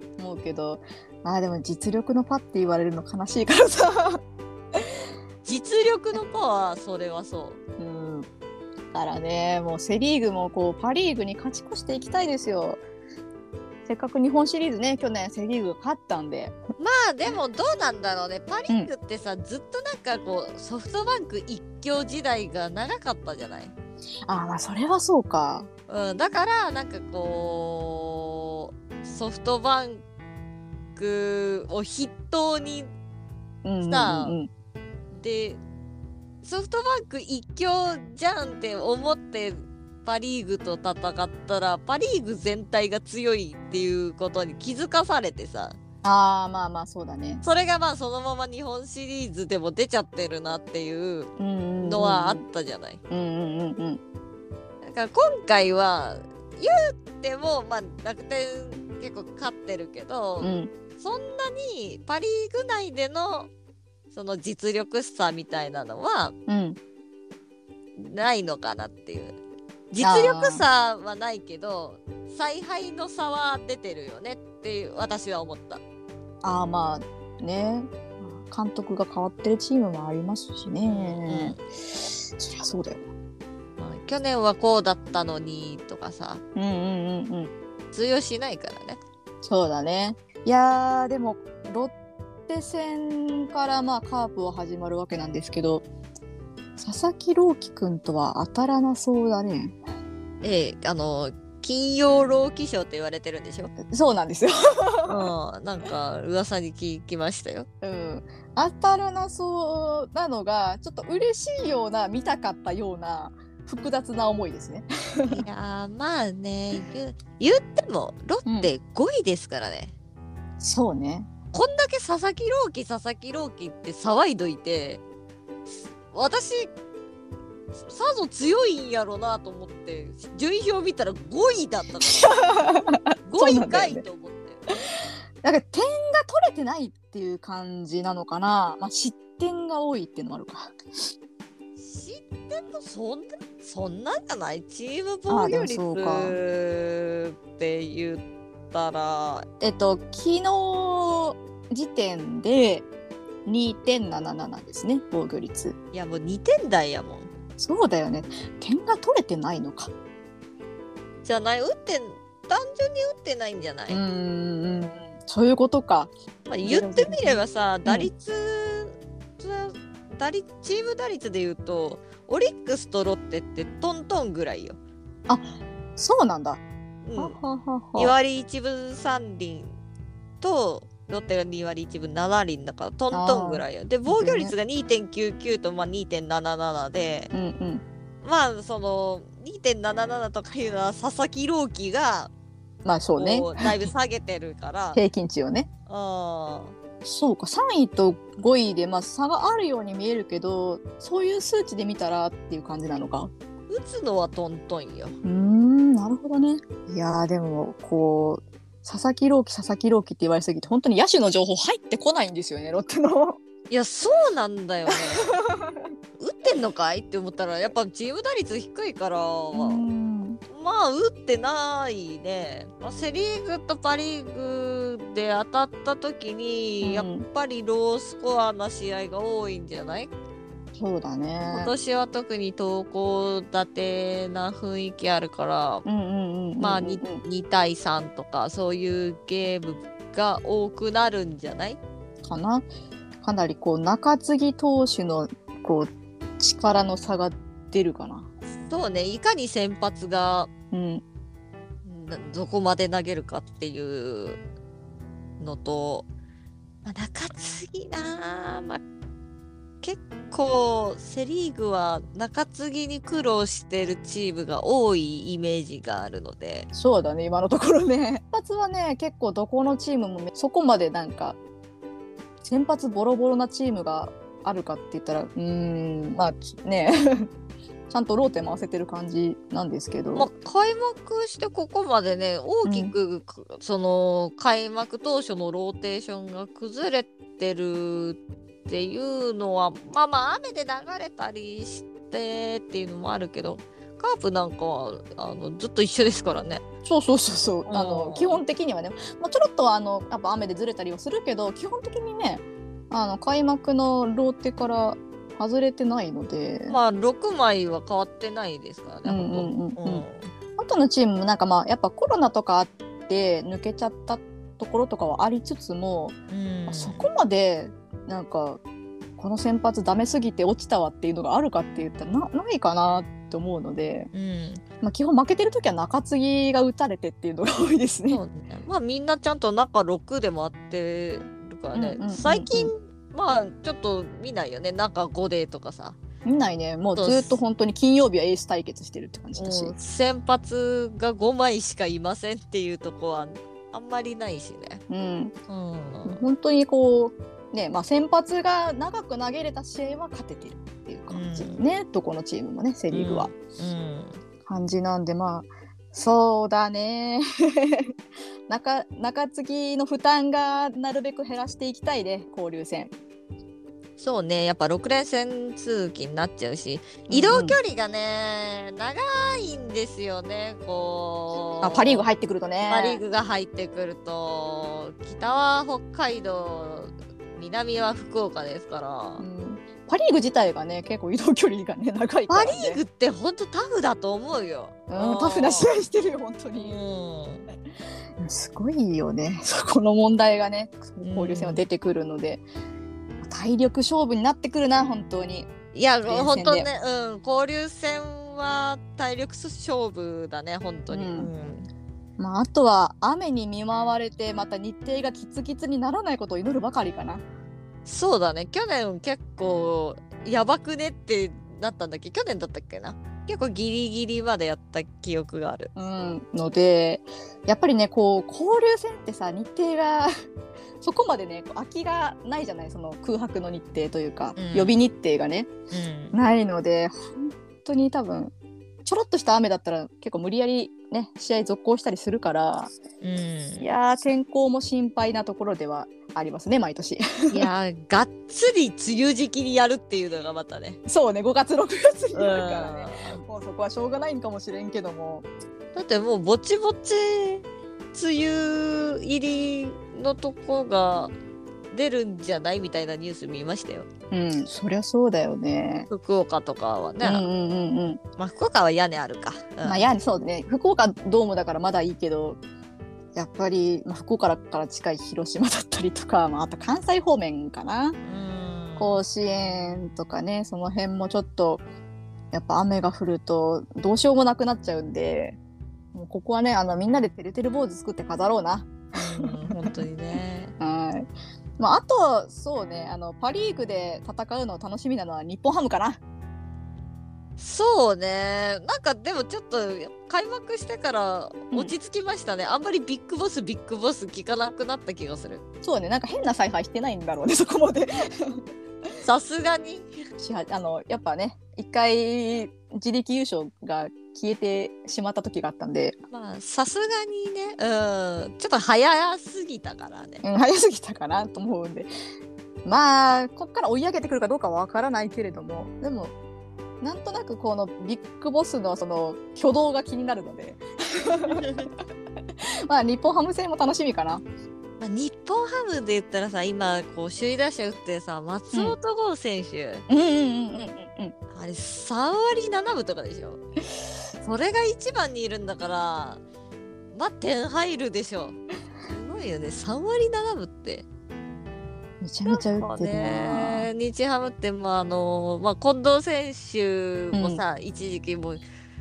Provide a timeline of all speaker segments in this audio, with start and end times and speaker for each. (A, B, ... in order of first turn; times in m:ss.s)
0:00.2-0:04.2 A
0:05.4-0:07.6 B
0:07.8-0:08.3 A
0:08.9-0:12.8 A
0:13.9-0:16.6 A
0:16.8-0:23.7 B
0:24.3-0:25.7 A
0:25.9-0:30.0 B
0:31.0-0:32.9 B
0:33.6-0:34.5 A
0:33.8-0:34.4 B
0:35.1-0:35.6 B
0:36.4-0:45.8 B
0:46.0-0:47.4 A
0:47.4-0:51.3 B
0:51.4-0:52.4 A
0:51.8-0:53.0 B
0:53.1-0:54.0 A
0:54.8-1:03.5 B
1:00.4-1:00.7 A
1:04.1-1:06.3 B
1:06.5-1:06.8 A
1:08.0-1:09.4 B
1:09.9-1:15.8 B
1:10.0-1:10.6 A
1:16.4-1:23.0 A
1:20.8-1:21.6 B
1:23.8-1:26.4 B
1:26.5-1:27.5 A
1:27.9-1:29.0 B
1:29.4-1:31.9 A
1:32.5-1:35.8 A
1:36.8-1:39.8 A
1:40.4-1:43.7 B
1:43.8-1:45.3 A
1:45.1-1:47.7 B
1:47.8-1:55.4 A
1:55.3-1:59.9 B
1:58.4-1:58.7 A
2:00.6-2:01.3 A
2:01.5-2:05.0 B
2:05.7-2:06.7 B
2:07.8-2:12.6 B
2:12.1-2:14.0 A
2:13.3-2:14.7 B
2:15.4-2:20.8 A
2:21.8-2:29.5 B
2:25.3-2:26.4 A
2:29.6-2:32.9 A
2:33.4-2:35.8 A
2:35.9-2:37.3 B
2:37.6-2:39.9 A
2:41.2-2:44.0 B
2:43.9-2:46.1 A
2:46.5-2:54.8 B
2:46.6-2:48.1 A
2:55.3-2:56.6 A
2:57.0-2:57.4 B
2:57.2-2:58.1 A
2:57.9-2:59.7 B
3:00.4-3:07.3 B
3:03.1-3:04.5 A
3:07.3-3:07.8 A
3:08.2-3:12.3 B
3:12.8-3:13.8 A
3:13.2-3:15.0 B
3:14.9-3:15.7 A
3:15.9-3:16.7 B
3:17.0-3:23.3 A
3:23.7-3:25.2 B
3:25.2-3:33.4 A
3:33.7-3:35.3 B
3:34.9-3:35.9 A
3:36.2-3:39.9 B
3:39.5-3:40.4 A
3:40.5-3:50.1 B
3:46.8-3:47.2 A
3:50.7-3:51.7 A
3:51.5-3:55.8 B
3:55.8-3:57.2 A
3:56.6-4:01.8 B
4:02.2-4:02.7 A
4:03.2-4:08.3 A
4:08.6-4:10.5 B
4:10.7-4:11.0 A
4:11.8-4:14.4 B
4:15.4-4:16.1 B
4:16.8-4:18.8 B
4:19.8-4:26.7 B
4:26.7-4:31.4 A
4:32.4-4:37.3 A
4:37.9-4:40.3 A
4:40.1-4:56.6 B
4:42.6-4:42.9 A
4:56.8-5:06.8 A
4:57.6-4:58.4 B
5:06.7-5:10.3 B
5:09.0-5:10.0 A
5:10.6-5:16.2 A
5:16.3-5:17.1 B
5:16.7-5:18.6 A
5:19.2-5:24.1 A
5:24.1-5:24.6 B
5:24.8-5:28.2 A
5:28.1-5:36.0 B
5:31.7-5:32.7 A
5:36.2-5:39.7 A
5:36.9-5:37.4 B
5:39.4-5:44.8 B
5:44.9-5:45.3 A
5:45.5-5:46.2 B
5:46.0-5:53.3 A
5:51.1-5:51.6 B
5:52.9-5:54.2 B
5:54.4-5:57.9 A
5:58.5-6:02.9 A
6:04.0-6:12.1 B
6:07.1-6:07.6 A
6:11.6-6:13.0 A
6:12.7-6:19.2 B
6:19.2-6:22.8 A
6:22.3-6:25.7 B
6:24.9-6:26.8 A
6:26.6-6:27.5 B
6:28.2-6:32.4 A
6:31.0-6:31.6 B
6:33.2-6:35.5 A
6:35.7-6:41.7 B
6:36.0-6:36.7 A
6:40.9-6:41.3 A
6:42.2-6:47.2 A
6:47.8-6:55.7 B
6:55.8-7:00.1 A
7:00.8-7:05.5 A
7:04.4-7:04.7 B
7:05.7-7:06.2 B
7:06.1-7:08.3 A
7:08.8-7:12.7 A
7:13.0-7:13.6 B
7:13.6-7:17.5 A
7:17.3-7:20.8 B
7:20.8-7:25.2 A
7:22.1-7:23.2 B
7:25.7-7:31.1 B
7:31.7-7:33.9 B
7:34.1-7:35.9 A
7:35.9-7:37.2 B
7:37.0-7:38.0 A
7:38.2-7:39.9 B
7:39.6-7:42.4 A
7:43.1-7:48.0 A
7:48.0-7:49.0 B
7:48.8-7:51.6 A
7:52.3-7:55.4 A
7:55.9-7:59.8 A
7:58.9-8:00.5 B
8:00.6-8:06.0 A
8:07.4-8:15.4 B
8:15.6-8:18.4 A
8:19.0-8:19.9 B
8:20.2-8:26.0 A
8:26.1-8:30.2 B
8:30.2-8:31.9 A
8:32.6-8:36.1 A
8:36.8-8:41.5 A
8:41.3-8:41.7 B
8:42.7-8:44.2 A
8:44.8-8:49.8 B
8:49.9-8:51.1 A
8:51.3-8:53.4 B
8:54.2-8:56.2 B
8:56.9-9:00.8 B
9:02.0-9:03.7 A
9:02.3-9:08.4 B
9:07.1-9:07.4 A